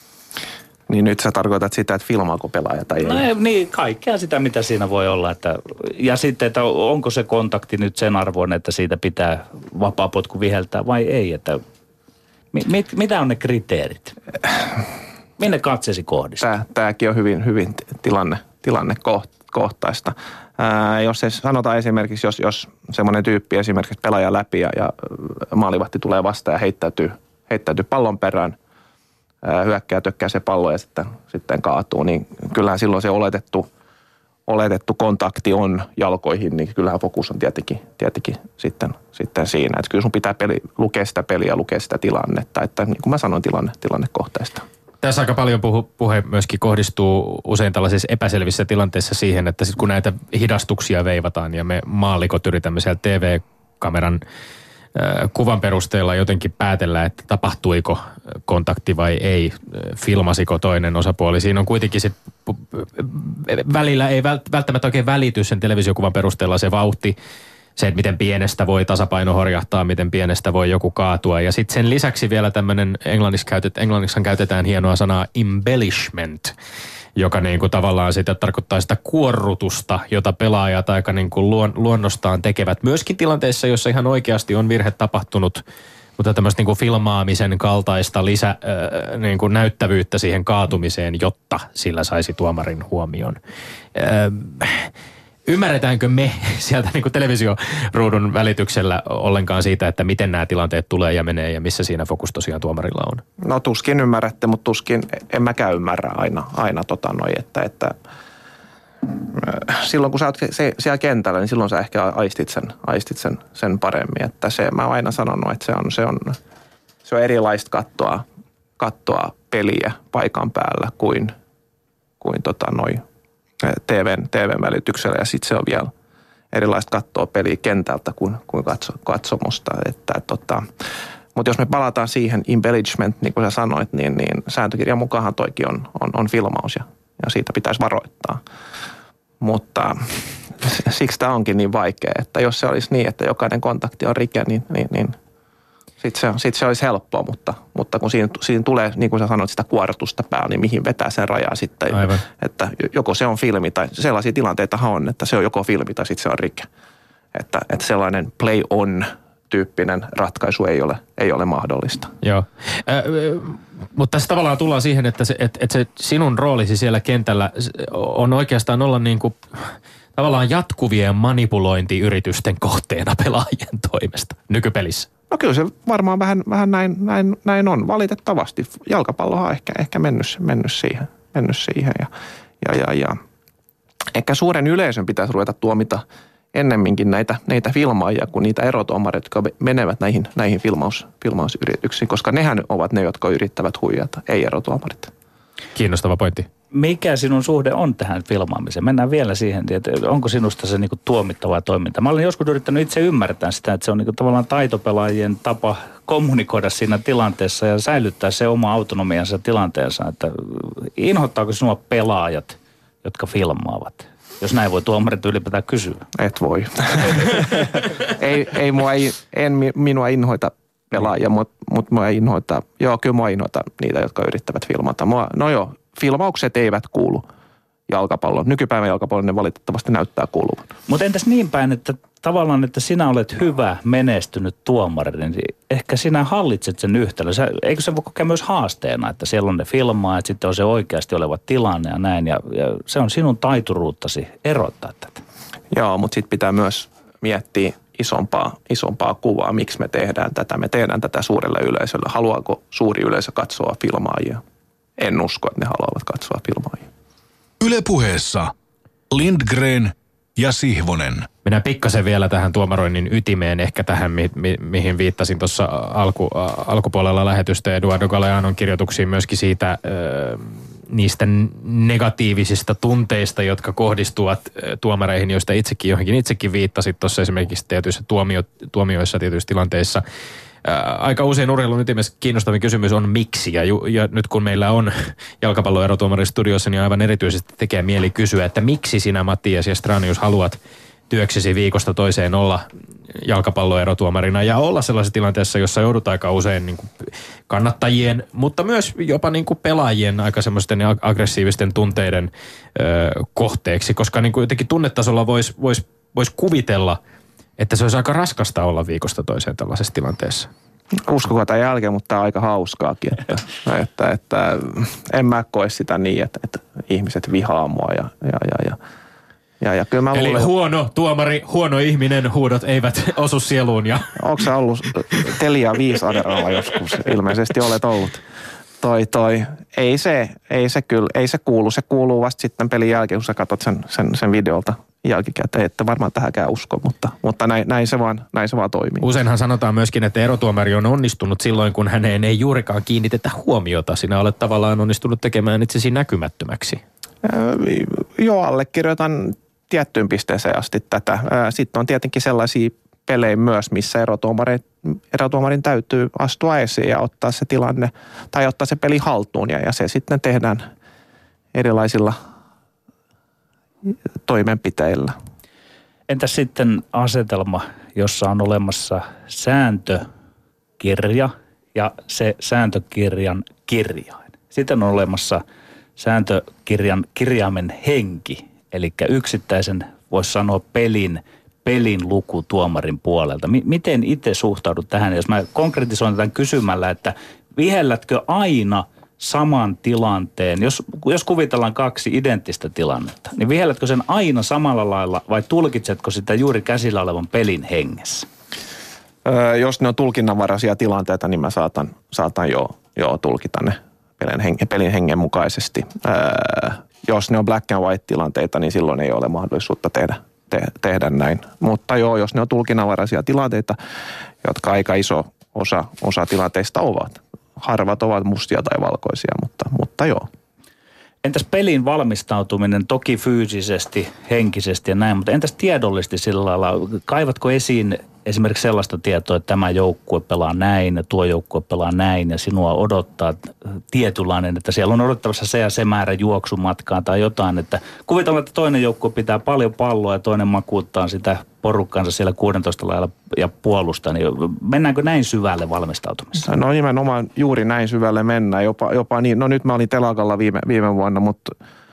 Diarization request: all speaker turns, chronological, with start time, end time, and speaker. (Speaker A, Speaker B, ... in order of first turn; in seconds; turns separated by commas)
Speaker A: 0.9-3.2, Speaker B: 3.0-11.6, Speaker B: 12.5-14.2, Speaker B: 15.4-16.5, Speaker A: 16.4-28.6, Speaker A: 29.4-33.7, Speaker A: 34.5-44.6, Speaker C: 45.0-54.2, Speaker C: 54.9-67.1, Speaker C: 67.8-76.5, Speaker C: 77.2-85.6, Speaker C: 86.2-93.4, Speaker C: 93.9-94.9, Speaker C: 95.5-103.2, Speaker A: 103.4-107.9, Speaker A: 109.0-116.4, Speaker A: 117.0-118.2, Speaker A: 118.8-121.3, Speaker A: 122.2-123.0, Speaker A: 123.6-125.9, Speaker A: 126.5-130.7, Speaker A: 131.3-138.4, Speaker A: 139.4-145.2, Speaker A: 146.0-156.7, Speaker C: 151.9-152.2, Speaker A: 157.3-162.1, Speaker C: 162.2-175.1, Speaker A: 175.3-182.1, Speaker A: 182.6-183.2, Speaker A: 184.1-195.1, Speaker C: 195.8-196.5, Speaker B: 196.7-216.1, Speaker A: 216.1-227.2, Speaker A: 227.9-230.7, Speaker B: 230.9-245.2, Speaker A: 245.7-254.4, Speaker A: 255.0-256.9, Speaker D: 257.6-258.5, Speaker D: 259.1-261.3, Speaker C: 261.4-280.0, Speaker C: 280.6-290.6, Speaker C: 291.1-307.0, Speaker C: 307.6-310.5, Speaker A: 311.0-318.8, Speaker A: 319.6-320.5, Speaker C: 320.1-324.2, Speaker A: 324.1-328.2, Speaker A: 328.8-339.1, Speaker C: 339.0-346.8, Speaker A: 347.2-360.7, Speaker A: 361.5-362.2, Speaker A: 363.8-365.1, Speaker B: 366.1-370.1, Speaker B: 370.8-375.4, Speaker B: 376.0-398.3, Speaker A: 399.2-413.8, Speaker A: 414.4-420.3, Speaker B: 421.2-446.5, Speaker A: 446.4-451.5